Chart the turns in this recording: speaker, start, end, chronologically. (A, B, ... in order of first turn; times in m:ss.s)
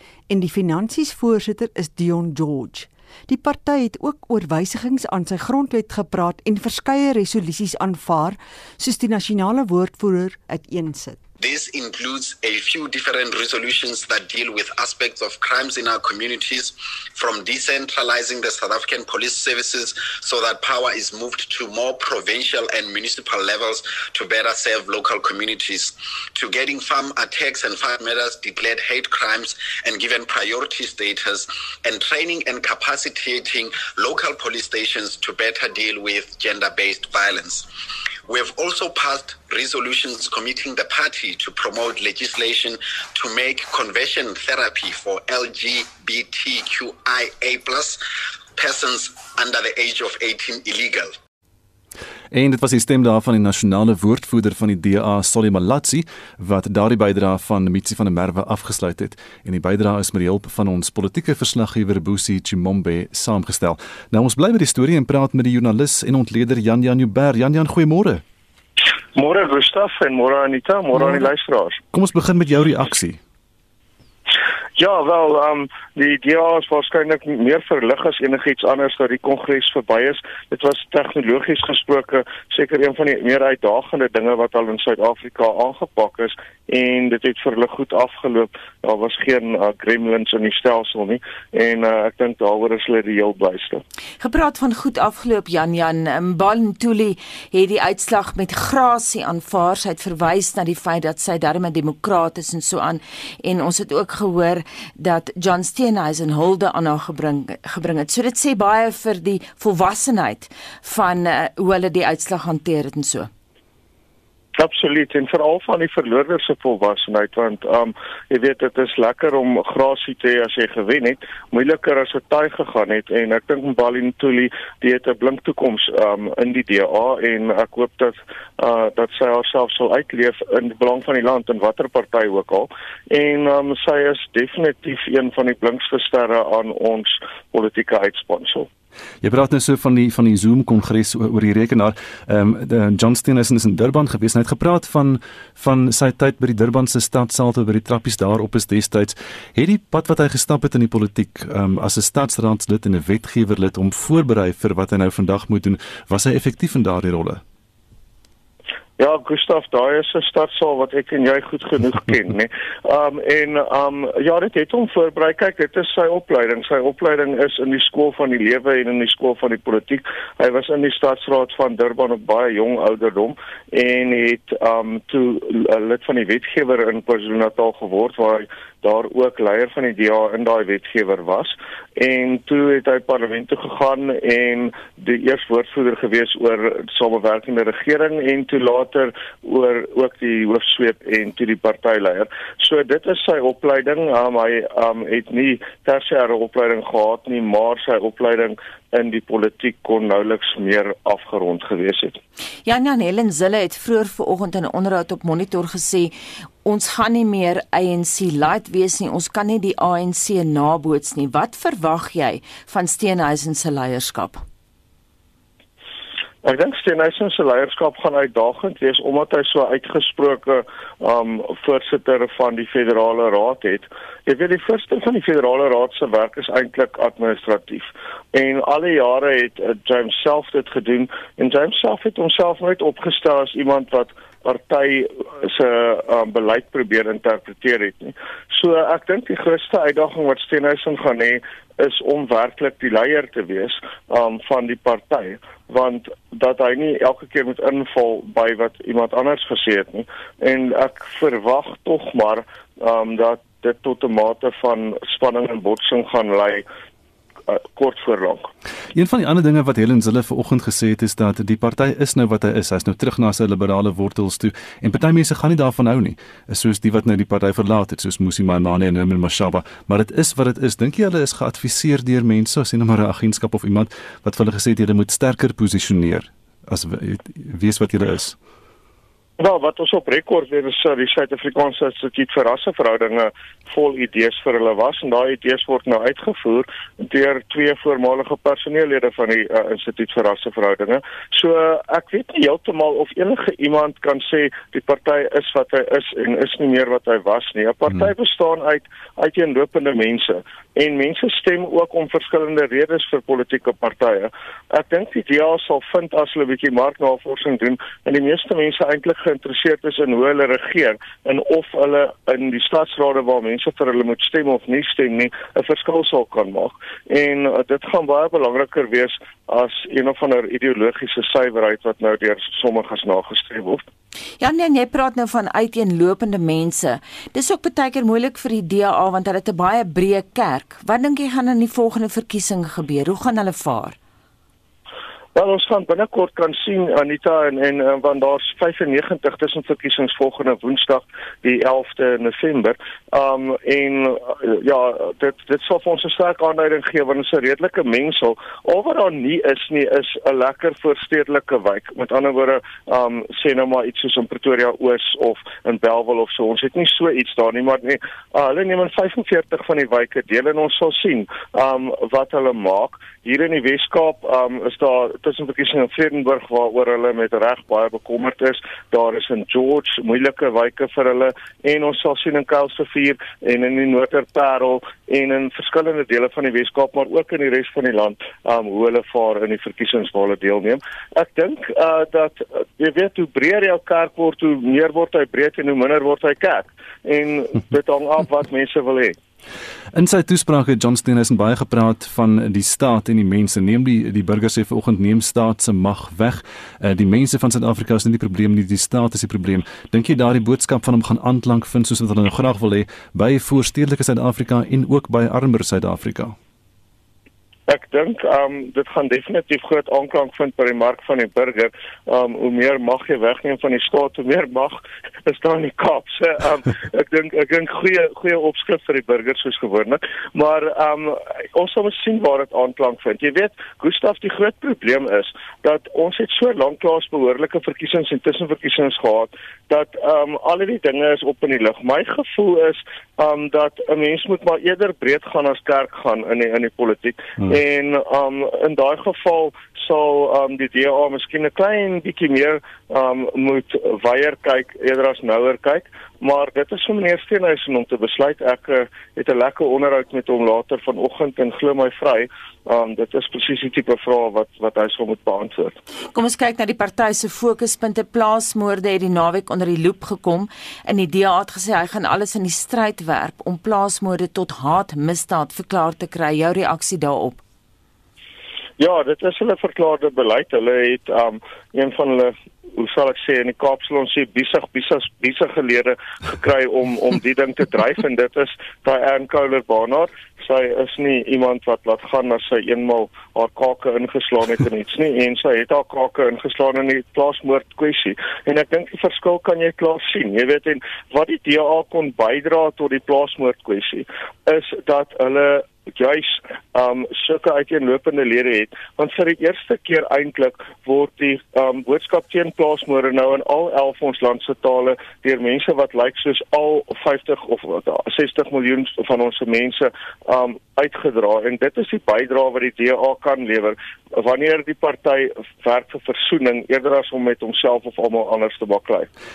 0:00.3-0:11.2 A
0:11.4-0:37.7 B
0:38.3-0:48.0 B
0:48.6-0:51.1 B
0:52.3-1:08.2 C
1:09.1-1:11.8 D
1:11.9-1:13.2 C
1:14.8-1:33.8 D
1:34.2-1:53.3 E
1:54.6-2:18.7 D
2:19.2-2:37.4 C
2:39.0-3:22.2 D
3:22.6-3:34.4 E
3:36.4-4:16.6 D
4:17.5-4:18.5 D
4:18.9-4:38.4 C
4:39.4-5:23.8 D
5:24.4-5:34.0 E
5:35.3-6:29.2 D
6:29.9-6:46.4 C
6:47.7-7:35.7 D
7:36.1-7:47.4 E
7:48.8-8:39.1 D